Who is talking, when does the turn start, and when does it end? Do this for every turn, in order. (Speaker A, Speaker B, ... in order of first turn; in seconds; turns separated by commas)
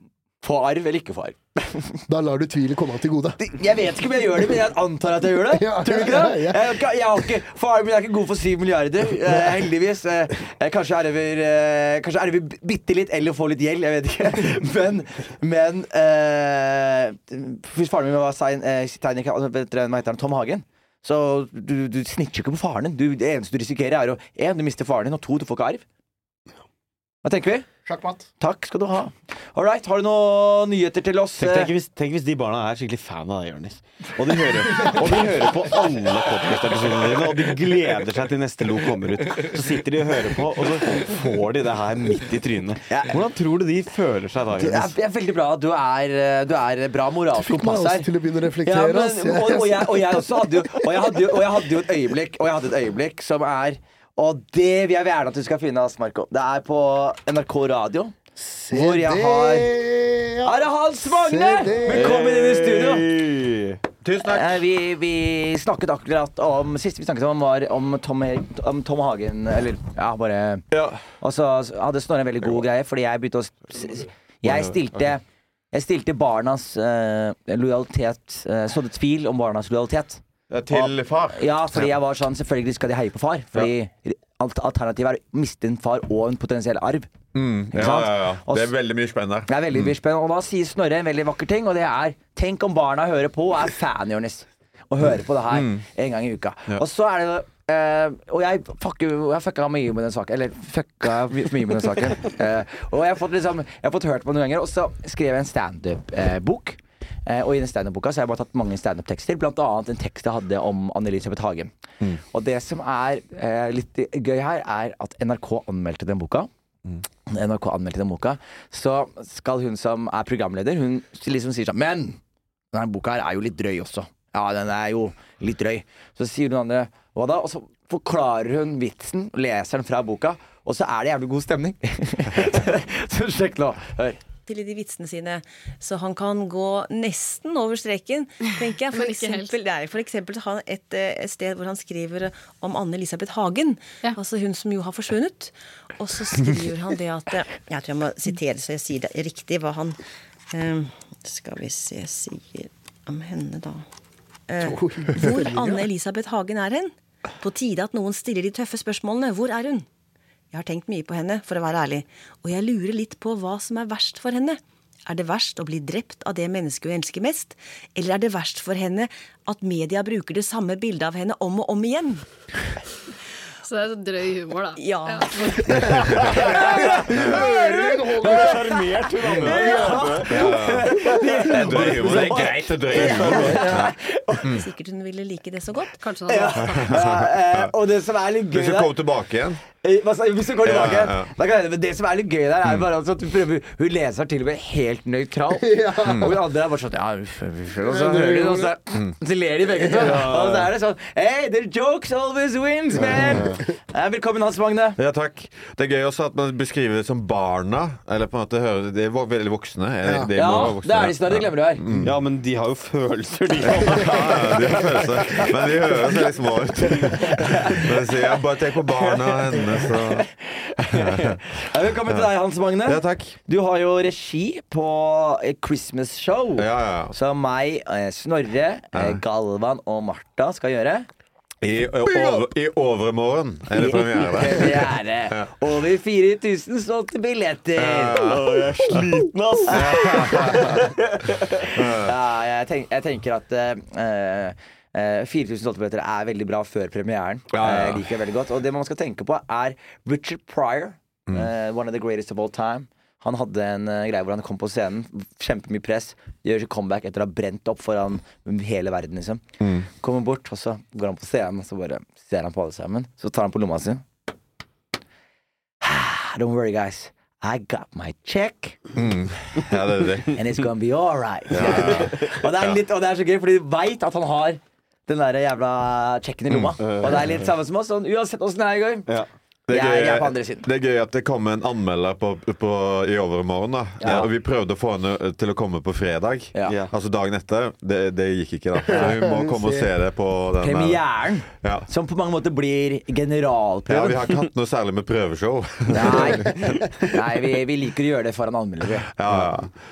Speaker A: 0.4-2.0, Speaker B: 2.1-3.4, Speaker A: 3.4-25.8, Speaker B: 5.5-6.8, Speaker A: 27.2-27.7, Speaker A: 28.4-31.7, Speaker C: 31.4-44.9, Speaker A: 35.0-35.4, Speaker A: 44.6-48.1, Speaker B: 47.3-50.5, Speaker A: 48.6-58.1, Speaker B: 58.4-62.2, Speaker A: 58.7-59.7, Speaker A: 60.4-63.0, Speaker C: 61.7-63.8, Speaker D: 64.0-64.6, Speaker A: 64.3-70.6, Speaker D: 70.7-71.1, Speaker A: 71.2-87.1, Speaker D: 74.4-75.1, Speaker D: 80.5-81.9, Speaker D: 87.3-89.9, Speaker A: 87.7-88.7, Speaker A: 89.5-111.7, Speaker D: 95.5-95.8, Speaker A: 112.3-116.5, Speaker A: 117.3-122.2, Speaker A: 122.7-134.2, Speaker E: 134.5-150.0, Speaker F: 138.4-139.6, Speaker E: 150.5-153.8, Speaker E: 154.5-159.8, Speaker B: 154.6-155.8, Speaker E: 160.5-172.2, Speaker F: 173.6-176.3, Speaker E: 174.8-175.9, Speaker D: 176.0-176.4, Speaker C: 176.6-183.8, Speaker A: 176.7-177.3, Speaker B: 176.9-178.5, Speaker A: 178.2-178.5, Speaker A: 179.4-184.6, Speaker D: 180.3-180.9, Speaker D: 181.5-184.7, Speaker E: 184.5-185.9, Speaker F: 185.9-186.8, Speaker A: 186.2-188.9, Speaker D: 186.6-187.7, Speaker D: 188.5-189.6, Speaker A: 189.8-205.0, Speaker D: 190.6-191.3, Speaker B: 195.5-196.3, Speaker D: 196.1-196.4, Speaker B: 197.8-198.8, Speaker B: 199.8-200.3, Speaker C: 200.0-200.7, Speaker C: 203.1-203.6, Speaker D: 205.0-212.1, Speaker A: 210.3-211.8, Speaker C: 212.0-214.8, Speaker D: 213.7-220.3, Speaker A: 217.3-217.9, Speaker A: 219.0-231.1, Speaker D: 220.9-221.4, Speaker D: 222.1-223.4, Speaker D: 226.6-227.1, Speaker D: 228.9-229.2, Speaker D: 231.6-235.5, Speaker B: 232.1-232.4, Speaker A: 233.8-238.2, Speaker D: 237.8-238.5, Speaker C: 238.1-241.9, Speaker A: 239.7-240.6, Speaker D: 239.7-240.7, Speaker D: 241.8-242.1, Speaker A: 242.0-264.0, Speaker D: 247.5-248.1, Speaker D: 259.6-259.9, Speaker A: 265.8-268.8, Speaker D: 268.9-270.4, Speaker A: 270.3-279.1, Speaker D: 271.5-272.8, Speaker C: 271.6-272.4, Speaker C: 276.8-277.4, Speaker D: 279.7-291.9, Speaker A: 279.7-280.7, Speaker A: 284.0-284.3, Speaker C: 286.6-286.9, Speaker B: 288.9-289.8, Speaker A: 290.6-294.2, Speaker D: 293.9-296.5, Speaker A: 295.9-299.1, Speaker C: 296.1-297.0, Speaker D: 299.1-299.7